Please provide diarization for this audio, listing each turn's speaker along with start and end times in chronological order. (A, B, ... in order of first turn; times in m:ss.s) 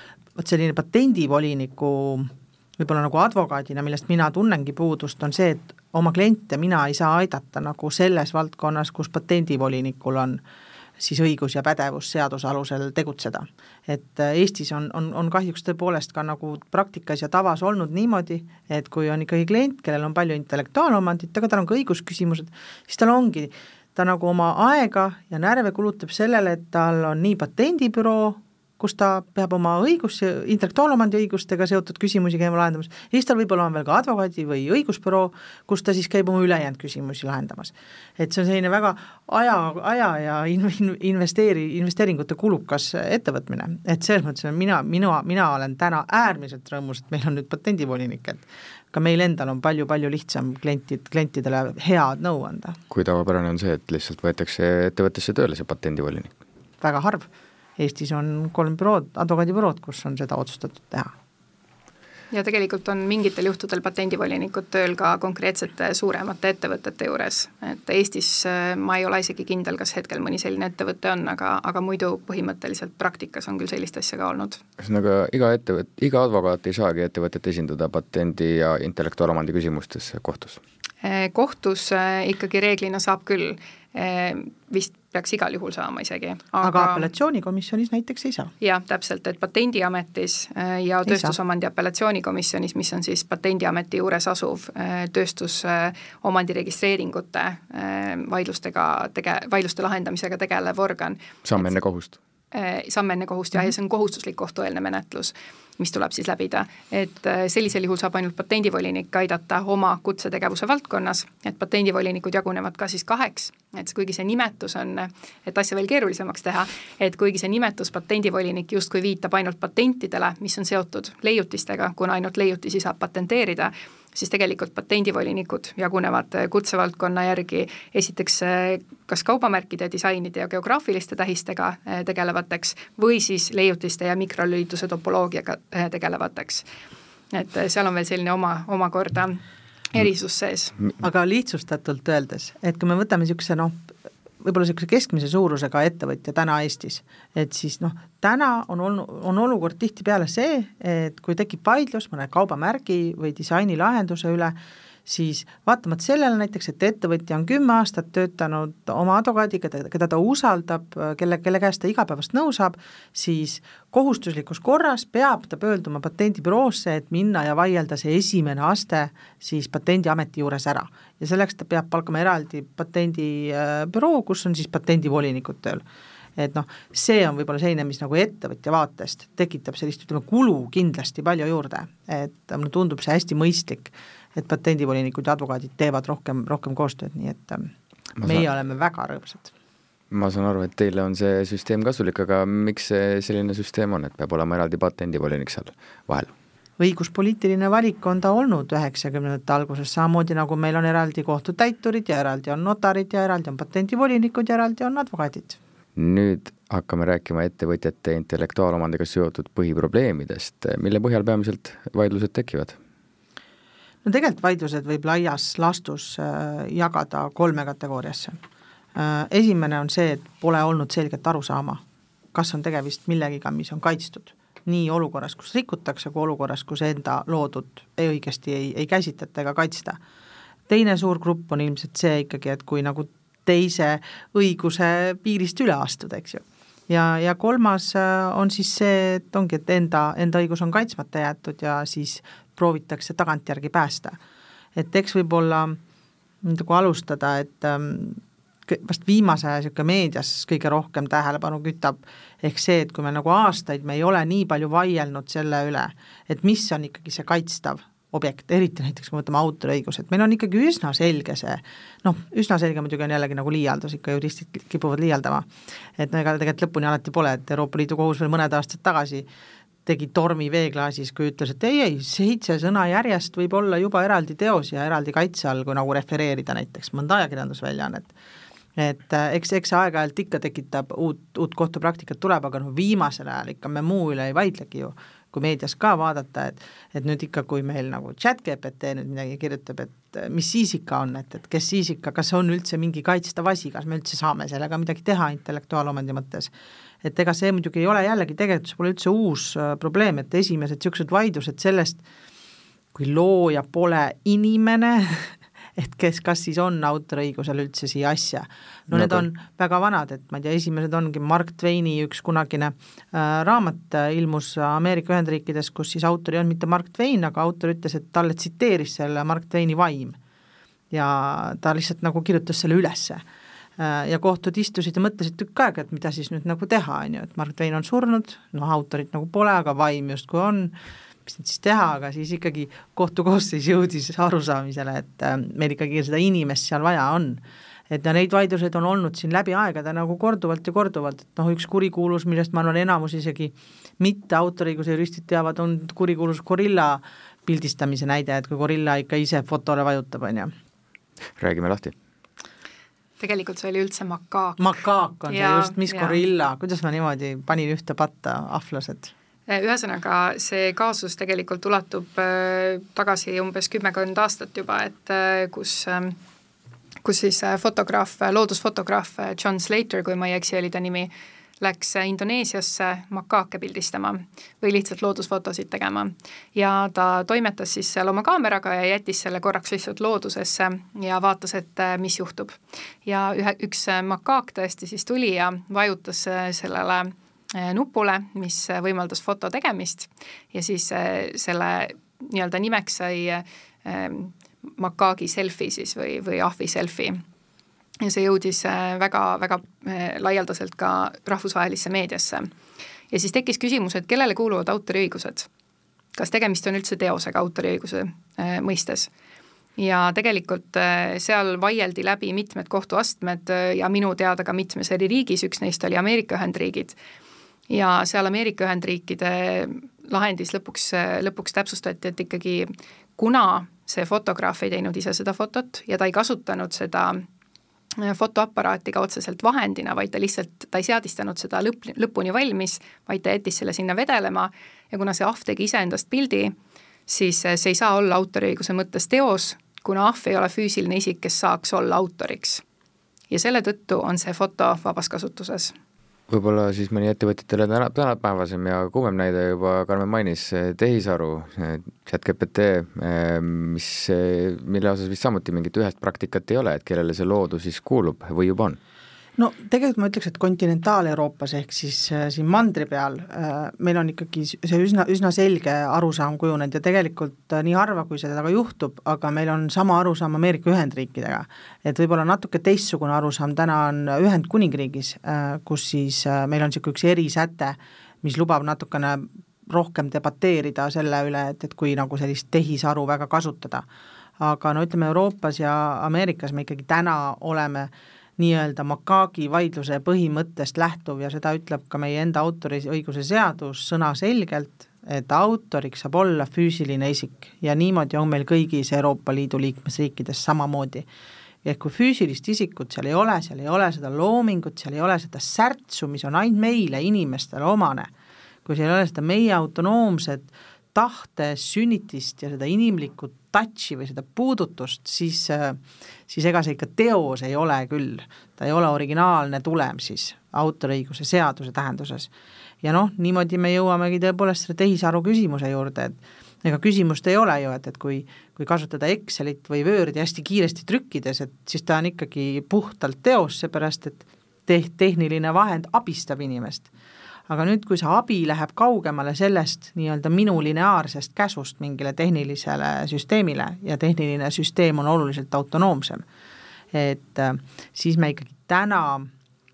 0:00.4-0:10.4 A
0:11.0-0:52.8 A
0:52.9-0:56.3 B
0:56.8-1:01.1 A
1:02.3-1:14.6 C
1:14.8-1:20.6 B
1:21.0-1:27.1 C
1:26.6-1:28.5 A
1:28.6-1:41.7 C
1:31.1-1:31.4 A
1:41.4-1:42.2 B
1:42.5-2:16.6 C
2:17.3-2:19.4 C
2:19.9-2:20.8 C
2:21.0-2:23.9 A
2:24.4-2:34.6 A
2:35.1-2:55.8 A
2:56.4-3:07.7 A
3:08.2-3:08.4 B
3:08.2-3:09.5 A
3:10.1-3:16.3 B
3:16.8-3:25.6 A
3:26.0-3:32.8 B
3:34.0-3:38.4 A
3:39.0-3:41.8 A
3:42.3-3:50.0 A
3:50.7-4:04.2 A
4:04.8-4:05.8 A
4:06.4-4:29.3 A
4:29.9-4:38.1 A
4:38.8-4:56.5 A
4:57.0-5:02.0 A
5:02.9-5:20.2 A
5:08.9-5:09.2 B
5:20.9-5:23.2 A
5:23.8-5:30.8 A
5:31.3-5:50.5 A
5:51.4-5:51.9 B
5:53.2-5:54.7 C
5:54.6-5:59.1 A
5:55.3-5:56.2 C
5:59.5-6:06.2 C
6:07.0-6:37.2 C
6:38.0-6:42.5 C
6:43.1-6:45.5 C
6:46.2-6:49.1 C
6:49.8-6:57.0 C
6:57.7-7:07.2 C
7:08.0-7:16.6 C
7:17.1-7:22.6 C
7:23.3-7:25.7 C
7:26.3-7:38.8 B
7:39.4-8:03.8 A
8:04.4-8:21.1 A
8:21.6-8:28.1 A
8:28.7-8:42.3 A
8:42.8-8:56.9 A
8:57.5-9:06.2 A
9:06.9-9:09.3 A